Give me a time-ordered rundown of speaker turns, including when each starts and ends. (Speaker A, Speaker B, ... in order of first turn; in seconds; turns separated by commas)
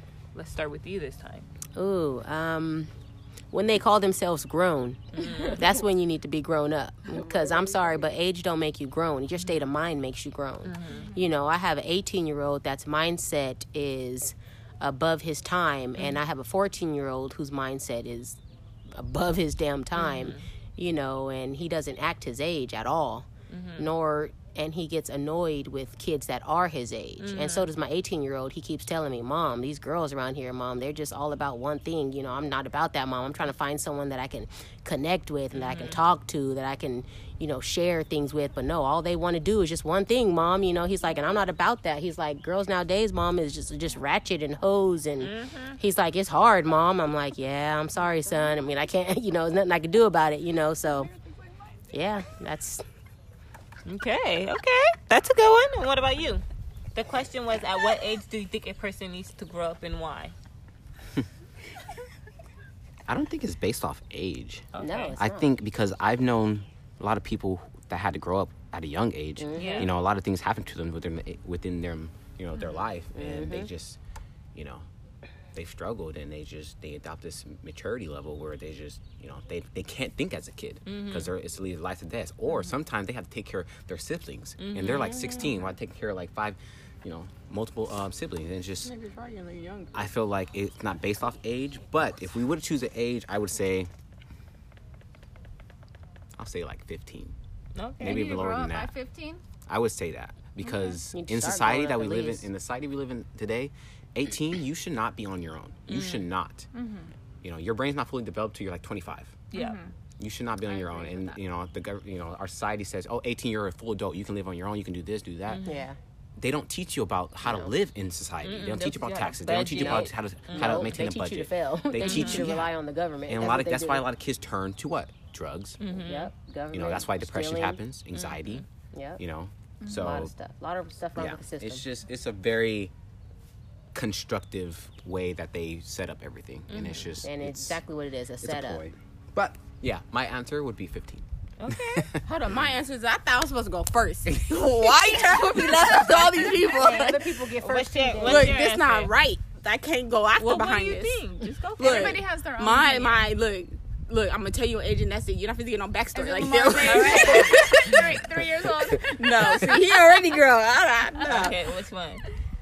Speaker A: 0.3-1.5, Speaker B: 1.7-2.9, Speaker B: 3.5-51.1, Speaker A: 5.2-5.6, Speaker C: 7.1-8.1, Speaker A: 10.6-11.1, Speaker A: 19.9-20.4, Speaker A: 23.5-23.9, Speaker A: 27.2-27.7, Speaker A: 35.5-36.0, Speaker A: 45.2-45.8, Speaker B: 51.9-52.8, Speaker A: 53.9-56.4, Speaker A: 56.9-60.3, Speaker D: 63.1-74.0, Speaker A: 64.7-65.2, Speaker B: 64.8-65.5, Speaker B: 69.4-69.9, Speaker A: 69.5-69.9, Speaker B: 73.1-73.7, Speaker D: 74.5-74.9, Speaker D: 75.5-88.9, Speaker A: 80.8-81.3, Speaker A: 84.6-85.5, Speaker C: 88.8-90.0, Speaker D: 89.9-93.9, Speaker D: 96.3-97.3, Speaker A: 97.8-98.3, Speaker D: 98.0-98.9, Speaker E: 98.0-99.4, Speaker D: 99.7-106.7, Speaker E: 100.6-101.0, Speaker B: 101.1-102.5, Speaker A: 105.9-106.2, Speaker E: 106.7-107.1, Speaker D: 107.4-109.4, Speaker A: 109.5-109.8, Speaker E: 109.5-109.9, Speaker D: 110.2-115.6, Speaker E: 110.7-111.4, Speaker A: 115.5-115.8, Speaker B: 115.7-116.0, Speaker D: 116.4-122.7, Speaker B: 117.4-117.7, Speaker A: 118.4-120.9, Speaker B: 119.7-124.0, Speaker A: 122.0-122.5, Speaker D: 123.3-125.8, Speaker A: 125.8-126.3, Speaker B: 125.9-127.8, Speaker D: 126.7-128.6, Speaker A: 128.1-128.6, Speaker B: 128.9-129.2, Speaker D: 129.2-130.3, Speaker E: 129.8-130.1, Speaker B: 129.9-131.8, Speaker D: 131.2-132.9, Speaker D: 133.9-137.8, Speaker A: 136.7-137.0, Speaker B: 137.2-138.8, Speaker D: 138.4-142.8, Speaker A: 141.6-142.1, Speaker C: 142.2-147.2, Speaker B: 146.6-148.6, Speaker A: 147.6-149.1, Speaker C: 148.2-151.2, Speaker A: 150.4-152.2, Speaker C: 151.8-158.0, Speaker E: 151.8-153.2, Speaker E: 156.1-159.8, Speaker A: 156.8-157.6, Speaker C: 159.1-161.7, Speaker A: 161.2-162.2